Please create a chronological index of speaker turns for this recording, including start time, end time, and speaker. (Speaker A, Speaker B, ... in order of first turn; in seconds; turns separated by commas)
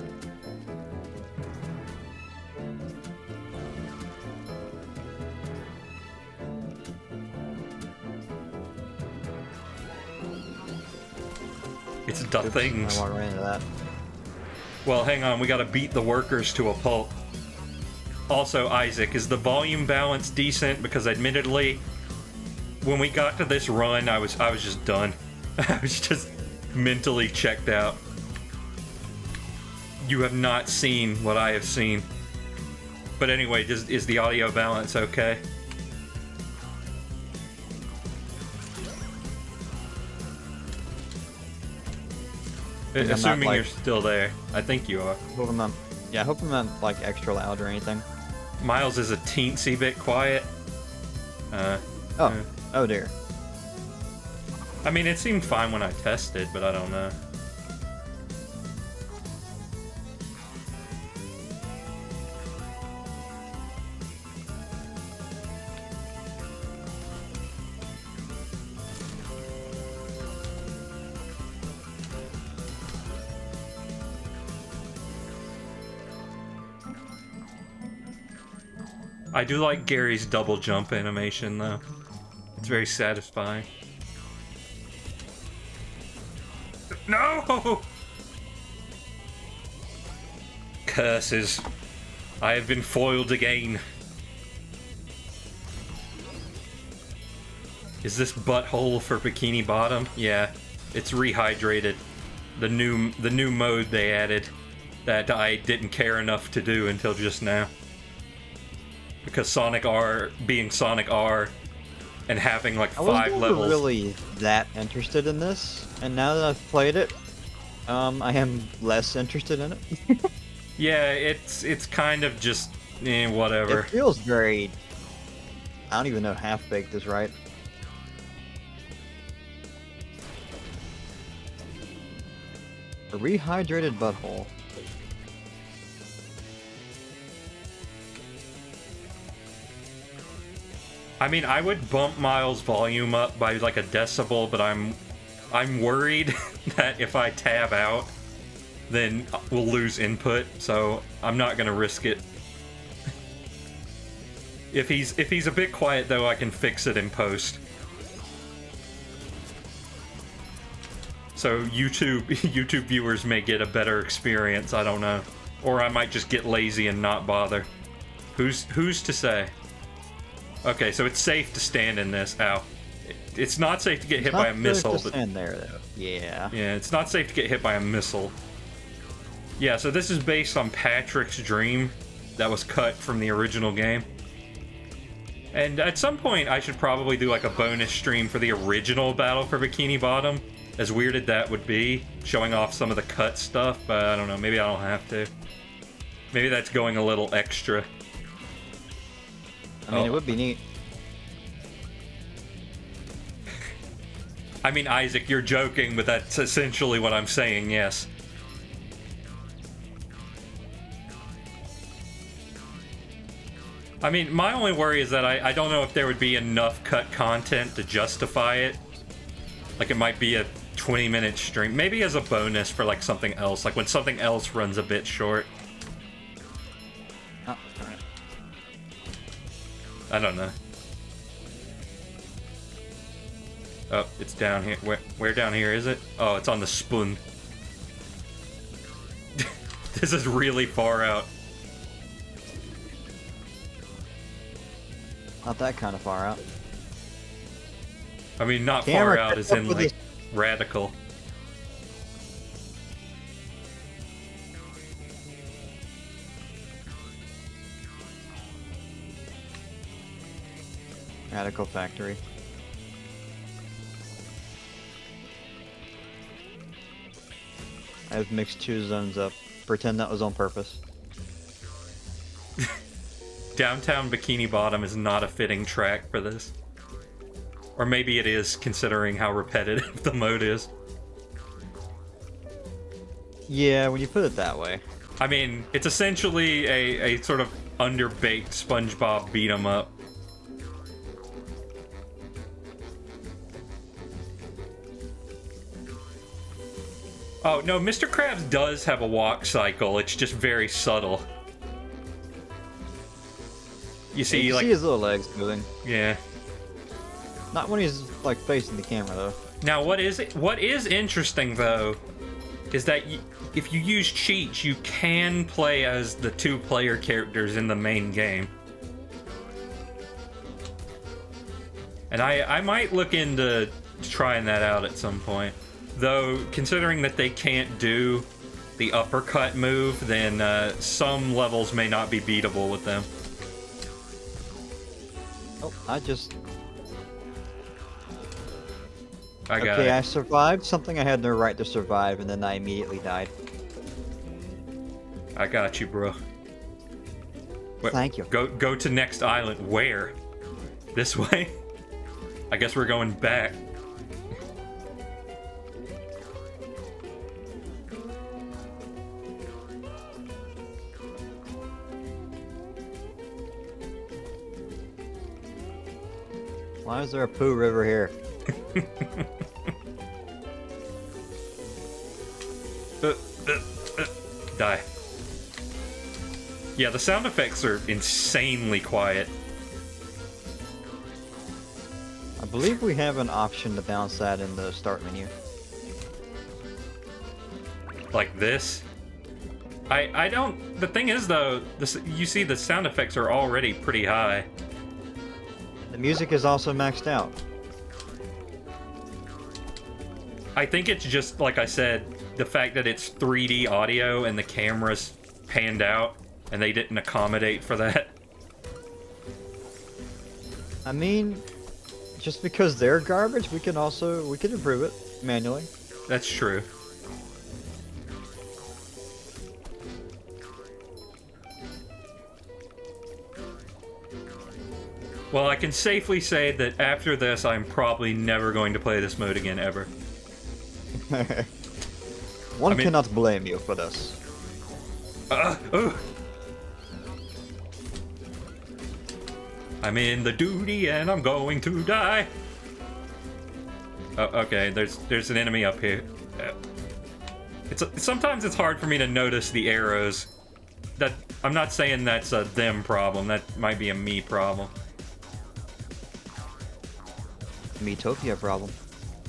Speaker A: 12.1-13.0, Speaker B: 12.4-13.7, Speaker A: 14.8-17.1, Speaker A: 18.3-21.8, Speaker A: 22.8-28.0, Speaker A: 30.0-32.1, Speaker A: 33.2-35.4, Speaker A: 42.9-45.2, Speaker B: 43.0-43.7, Speaker B: 45.3-48.0, Speaker A: 48.6-50.5, Speaker A: 51.5-52.5, Speaker B: 52.2-53.1, Speaker A: 54.8-57.1, Speaker A: 79.3-81.8, Speaker A: 82.6-83.7, Speaker A: 87.1-87.8, Speaker A: 90.8-91.7, Speaker A: 92.4-93.8, Speaker A: 98.0-102.0, Speaker A: 102.6-104.5, Speaker A: 105.0-107.7, Speaker A: 109.2-111.5, Speaker A: 112.3-113.8, Speaker B: 113.0-117.1, Speaker B: 117.9-120.2, Speaker A: 120.8-123.9, Speaker B: 123.7-124.7, Speaker B: 125.9-127.3, Speaker B: 133.1-134.5, Speaker A: 141.2-145.0, Speaker A: 145.5-148.1, Speaker A: 148.9-152.2, Speaker A: 154.7-157.6, Speaker A: 161.3-167.7, Speaker A: 168.3-169.5, Speaker A: 170.6-175.1, Speaker B: 174.2-176.5, Speaker A: 176.5-178.3, Speaker A: 179.6-184.1, Speaker A: 185.5-195.3, Speaker A: 196.3-197.9, Speaker B: 199.8-200.6, Speaker A: 199.9-200.3, Speaker A: 204.6-208.1, Speaker A: 214.0-218.8, Speaker A: 219.8-225.5, Speaker B: 227.4-228.0, Speaker A: 230.1-230.5, Speaker A: 233.9-237.2, Speaker A: 239.4-241.3, Speaker B: 245.4-246.4, Speaker A: 248.4-250.9, Speaker B: 248.8-249.9, Speaker B: 261.3-262.2, Speaker B: 268.1-270.8, Speaker A: 273.5-276.5, Speaker A: 277.8-280.7, Speaker B: 283.5-284.8, Speaker A: 285.2-289.9, Speaker A: 297.4-301.2, Speaker A: 304.1-304.7, Speaker B: 304.3-305.7, Speaker A: 305.8-306.2, Speaker B: 307.5-309.4, Speaker A: 309.6-312.0, Speaker A: 312.7-318.5, Speaker A: 322.1-333.1, Speaker B: 335.6-336.3, Speaker A: 339.5-340.0, Speaker B: 339.6-343.3, Speaker A: 345.4-346.2, Speaker A: 347.8-350.1, Speaker B: 347.9-348.3, Speaker A: 350.9-351.6, Speaker A: 352.5-353.6, Speaker B: 366.8-368.1, Speaker A: 368.7-369.3, Speaker A: 373.0-374.8, Speaker A: 376.8-379.3, Speaker B: 382.4-385.3, Speaker A: 388.1-388.9, Speaker A: 389.9-394.5, Speaker B: 395.9-397.4, Speaker A: 400.6-408.1, Speaker B: 410.8-411.4, Speaker B: 412.2-415.7, Speaker A: 416.1-416.7, Speaker A: 425.3-429.9, Speaker B: 431.1-431.5, Speaker B: 432.6-434.2, Speaker A: 435.3-436.0, Speaker A: 439.8-442.3, Speaker A: 444.1-446.6, Speaker A: 447.7-450.3, Speaker A: 451.0-454.7, Speaker B: 457.8-458.7